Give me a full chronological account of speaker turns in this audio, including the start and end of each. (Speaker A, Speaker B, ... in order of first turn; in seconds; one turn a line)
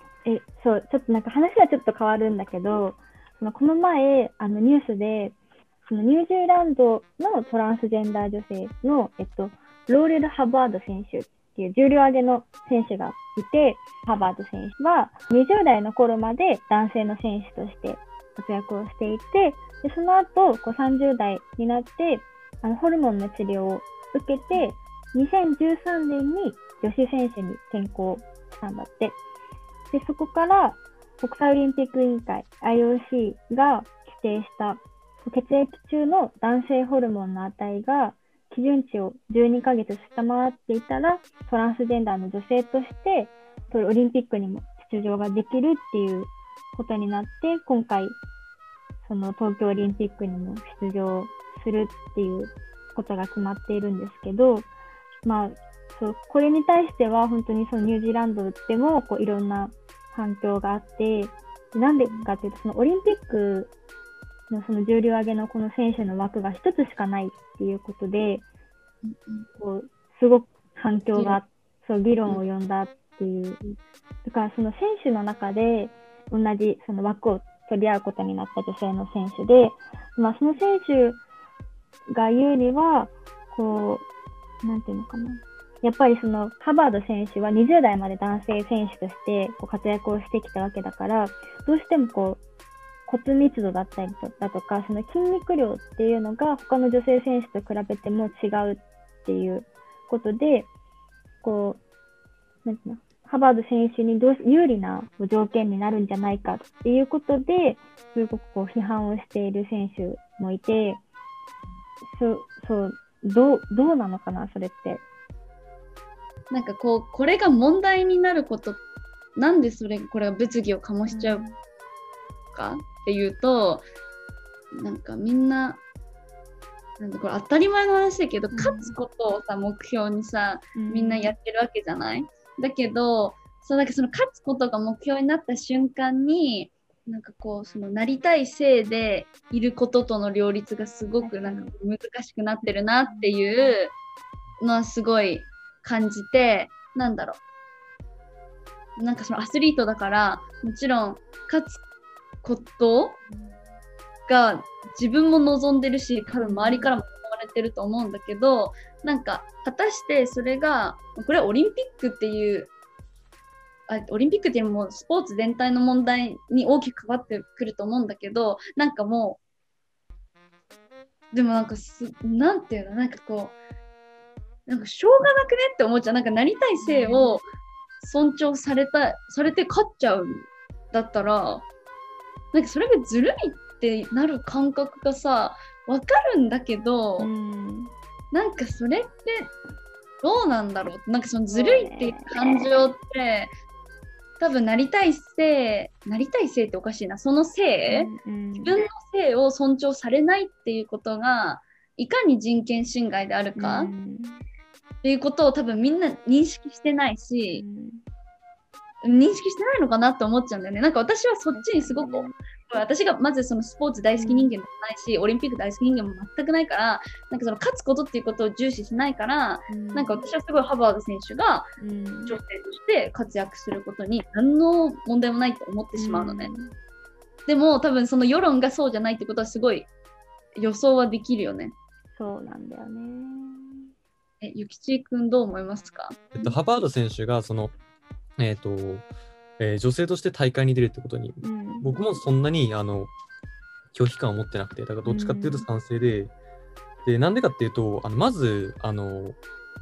Speaker A: 0.2-29.2
Speaker A: 29.9-48.2
Speaker A: 49.0-54.7
Speaker A: 55.2-63.7
Speaker B: 62.0-62.3
Speaker A: 64.5-68.4
Speaker B: 69.0-69.5
Speaker A: 69.5-73.6
Speaker B: 71.1-71.4
Speaker A: 74.2-81.2
Speaker A: 82.1-84.1
Speaker A: 84.6-92.4
Speaker A: 93.1-100.7
Speaker A: 101.4-101.8
Speaker A: 102.6-111.0
Speaker A: 112.1-115.0
Speaker B: 116.5-118.8
Speaker B: 119.4-121.5
Speaker A: 121.1-121.6
Speaker B: 122.5-123.8
Speaker B: 124.7-125.8
Speaker B: 127.0-143.9
Speaker A: 128.5-129.0
Speaker A: 130.8-131.3
Speaker A: 141.2-141.7
Speaker A: 143.1-143.7
Speaker B: 144.6-147.4
Speaker B: 149.0-151.8
Speaker B: 152.4-153.2
Speaker B: 154.3-162.7
Speaker A: 156.4-156.9
Speaker B: 163.9-169.4
Speaker B: 171.3-173.6
Speaker B: 174.7-177.4
Speaker A: 176.8-177.4
Speaker B: 178.0-181.7
Speaker B: 182.5-187.3
Speaker A: 187.2-187.9
Speaker B: 188.3-189.5
Speaker B: 190.2-193.5
Speaker A: 191.5-192.7
Speaker B: 194.4-203.9
Speaker A: 197.9-198.8
Speaker A: 203.6-204.4
Speaker B: 205.0-207.6
Speaker A: 207.5-208.0
Speaker B: 209.0-221.7
Speaker A: 211.5-212.3
Speaker A: 214.2-214.5
Speaker A: 219.7-220.2
Speaker A: 221.8-222.4
Speaker B: 222.3-226.5
Speaker A: 226.0-226.7
Speaker B: 227.5-229.9
Speaker B: 230.6-231.8
Speaker A: 232.2-233.9
Speaker B: 234.4-236.4
Speaker C: 236.4-237.8
Speaker C: 238.4-239.1
Speaker C: 239.6-243.1
Speaker A: 241.4-242.0
Speaker C: 243.9-246.3
Speaker A: 245.1-245.7
Speaker C: 247.0-249.4